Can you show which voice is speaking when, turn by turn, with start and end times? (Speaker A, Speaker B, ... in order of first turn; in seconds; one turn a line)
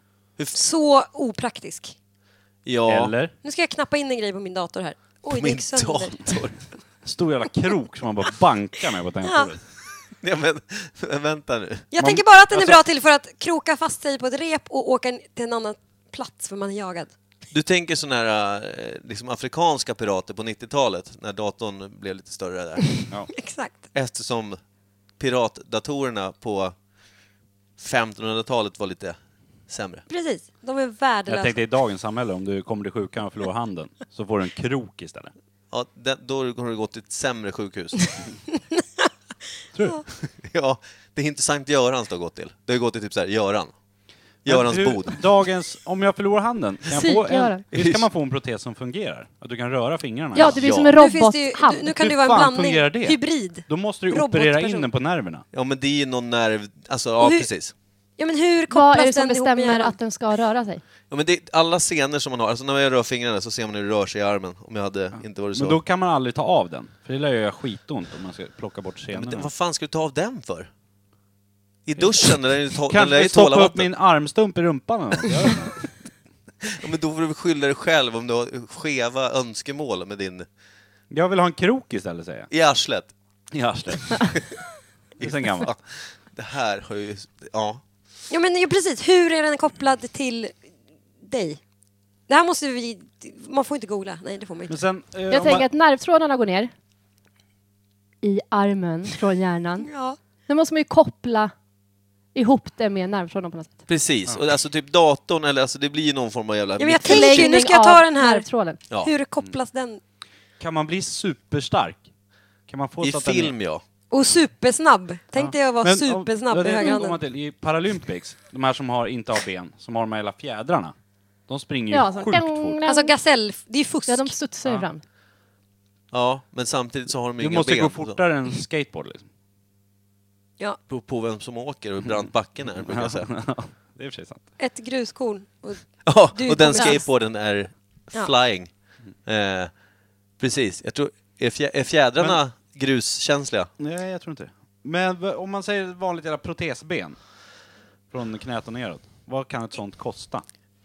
Speaker A: 0.5-1.9
Speaker B: 2.6-3.1
Speaker C: 2.9-3.3
Speaker A: 3.4-6.3
Speaker B: 5.3-6.6
Speaker C: 7.0-9.6
Speaker A: 9.2-9.5
Speaker B: 10.2-11.9
Speaker A: 11.9-17.1
Speaker B: 17.5-23.0
Speaker A: 23.3-23.8
Speaker B: 23.9-24.6
Speaker B: 25.2-26.7
Speaker B: 27.8-29.2
Speaker B: 29.7-30.0
Speaker A: 30.1-31.6
Speaker C: 31.3-35.3
Speaker B: 35.7-38.1
Speaker C: 39.7-40.0
Speaker B: 40.4-43.7
Speaker B: 44.4-45.3
Speaker C: 44.4-50.9
Speaker D: 46.9-47.6
Speaker B: 47.7-48.0
Speaker D: 50.3-52.0
Speaker B: 50.5-50.9
Speaker A: 51.0-54.9
Speaker C: 52.0-55.4
Speaker B: 55.5-57.7
Speaker A: 57.2-57.5
Speaker A: 58.2-60.0
Speaker D: 58.7-60.8
Speaker B: 61.1-65.8
Speaker C: 65.5-69.5
Speaker B: 69.1-70.7
Speaker B: 71.8-73.9
Speaker C: 72.9-75.8
Speaker B: 76.7-80.5
Speaker C: 81.1-82.5
Speaker B: 82.5-83.1
Speaker C: 83.5-84.3
Speaker B: 85.2-87.8
Speaker C: 85.2-85.7
Speaker A: 88.3-90.5
Speaker A: 91.2-91.6
Speaker A: 92.3-94.7
Speaker C: 94.7-95.7
Speaker D: 95.3-96.7
Speaker D: 98.2-99.9
Speaker A: 99.8-100.2
Speaker D: 100.5-101.5
Speaker D: 102.3-103.8
Speaker B: 103.9-107.5
Speaker A: 106.8-110.0
Speaker D: 107.0-108.8
Speaker C: 110.6-112.1
Speaker C: 112.7-113.5
Speaker B: 113.0-113.8
Speaker A: 114.1-117.2
Speaker C: 115.3-120.9
Speaker C: 121.5-122.8
Speaker D: 121.9-123.1
Speaker A: 122.8-124.3
Speaker D: 124.1-125.0
Speaker B: 126.1-128.2
Speaker C: 127.4-129.2
Speaker B: 130.9-133.3
Speaker C: 132.0-134.4
Speaker A: 134.6-137.2
Speaker B: 136.0-138.7
Speaker B: 139.2-139.7
Speaker B: 140.4-143.7
Speaker C: 143.8-147.2
Speaker C: 148.1-150.4